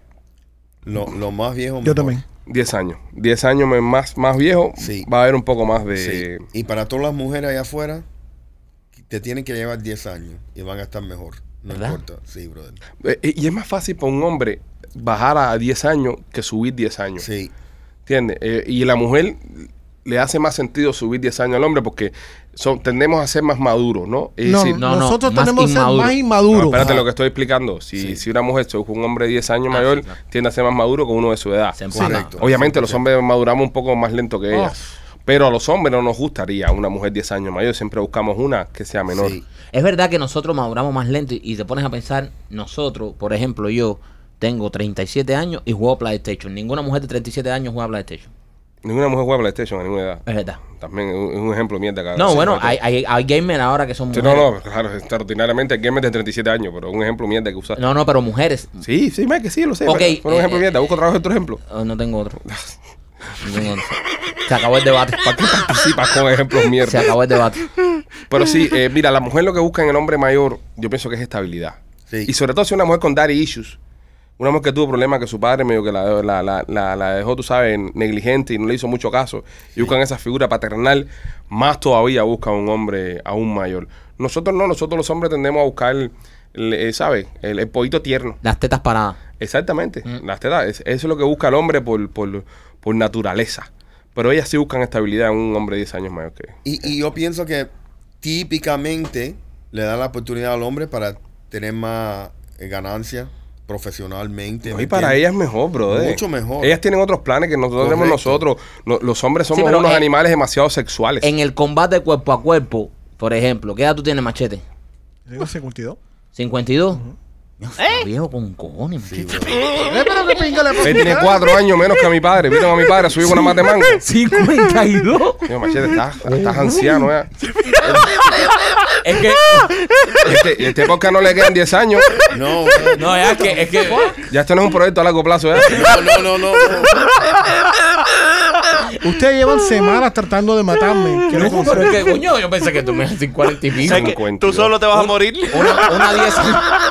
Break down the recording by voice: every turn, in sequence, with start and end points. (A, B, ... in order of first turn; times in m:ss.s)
0:00.8-0:02.2 A
0:01.8-0:02.2 B
0:02.4-0:06.4 C
0:04.8-0:05.1 A
0:05.9-0:08.0 A
0:09.0-0:12.8 A
0:11.7-0:12.0 D
0:13.0-0:17.2 C
0:17.2-0:17.5 A
0:18.0-0:24.8 C
0:24.4-0:27.0 B
0:24.7-0:26.2 D
0:26.5-0:39.4 C
0:26.7-0:27.0 D
0:29.7-0:30.2 D
0:31.8-0:32.4 D
0:31.9-0:33.0 A
0:34.5-0:34.8 B
0:39.1-0:39.4 A
0:39.7-0:48.3 D
0:48.8-0:52.8 C
0:50.2-0:50.6 D
0:52.1-0:54.5 D
0:54.1-0:57.8 C
0:57.8-0:58.8 D
0:58.8-1:01.6 C
0:59.8-1:00.6 D
1:01.6-1:02.4 D
1:02.4-1:02.7 C
1:03.4-1:05.3 D
1:05.2-1:07.2 C
1:06.8-1:07.7 D
1:08.3-1:13.8 C
1:12.1-1:12.3 A
1:14.4-1:28.4 C
1:28.4-1:29.2 D
1:29.4-1:36.5 C
1:36.6-1:37.7 A
1:38.2-1:45.2 A
1:44.6-1:51.3 C
1:45.8-1:46.8 A
1:47.8-1:48.4 A
1:49.5-1:50.1 D
1:51.2-1:54.6 D
1:55.3-1:56.0 B
1:56.3-1:57.0 D
1:57.6-1:59.6 D
1:57.8-1:58.0 E
1:59.0-1:59.6 A
1:59.3-2:01.4 B
2:00.8-2:04.0 C
2:03.2-2:05.5 D
2:05.4-2:07.3 C
2:07.6-2:10.4 D
2:10.2-2:12.2 C
2:12.3-2:13.0 A
2:12.9-2:14.2 D
2:13.2-2:14.2 B
2:14.3-2:15.9 C
2:15.7-2:16.9 A
2:19.0-2:22.1 B
2:21.3-2:24.1 D
2:23.8-2:25.1 C
2:23.8-2:26.2 E
2:25.5-2:26.7 D